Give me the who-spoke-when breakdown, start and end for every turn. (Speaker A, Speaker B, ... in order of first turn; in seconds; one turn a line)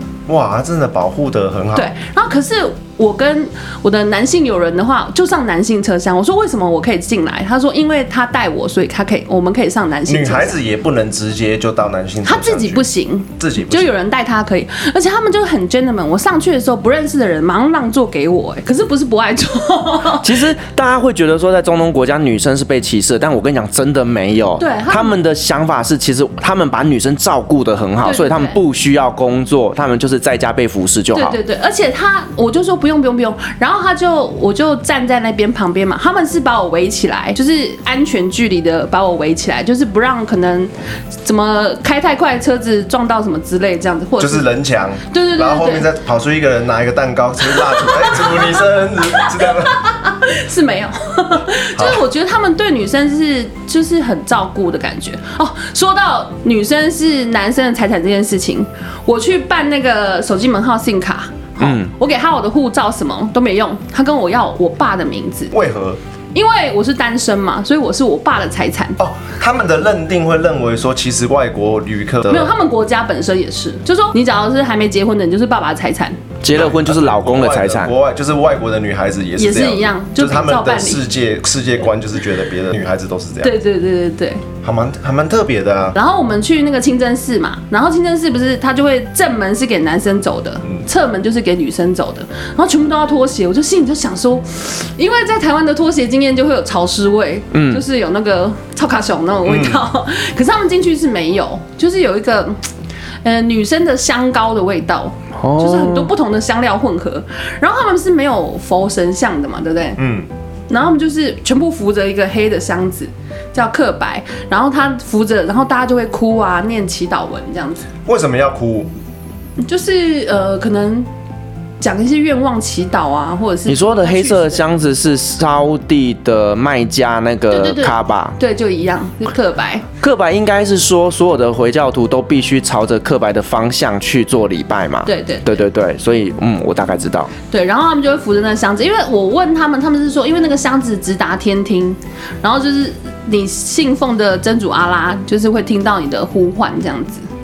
Speaker A: 0.3-1.9
Speaker B: 1.8-10.6
Speaker A: 10.1-12.9
Speaker B: 12.2-20.4
Speaker A: 13.4-13.9
Speaker C: 20.2-31.4
Speaker B: 24.6-25.2
Speaker B: 28.0-28.6
Speaker B: 31.1-44.5
Speaker A: 44.2-49.9
Speaker B: 45.1-45.9
Speaker B: 47.6-48.5
Speaker B: 49.2-65.5
Speaker A: 51.8-52.0
Speaker C: 61.6-61.9
Speaker A: 65.5-66.0
Speaker B: 66.3-69.0
Speaker A: 69.0-72.5
Speaker B: 72.3-76.2
Speaker C: 76.4-77.9
Speaker A: 76.5-83.5
Speaker B: 79.4-81.0
Speaker B: 83.4-84.4
Speaker A: 84.6-86.0
Speaker B: 85.9-102.6
Speaker C: 97.5-97.8
Speaker A: 99.5-99.8
Speaker B: 103.2-110.0
Speaker C: 105.4-106.1
Speaker A: 110.0-110.3
Speaker B: 110.7-117.9
Speaker A: 118.1-118.9
Speaker B: 119.6-121.1
Speaker B: 121.8-124.6
Speaker C: 123.7-128.4
Speaker B: 127.5-129.9
Speaker C: 130.0-137.3
Speaker B: 135.1-135.7
Speaker B: 137.5-147.3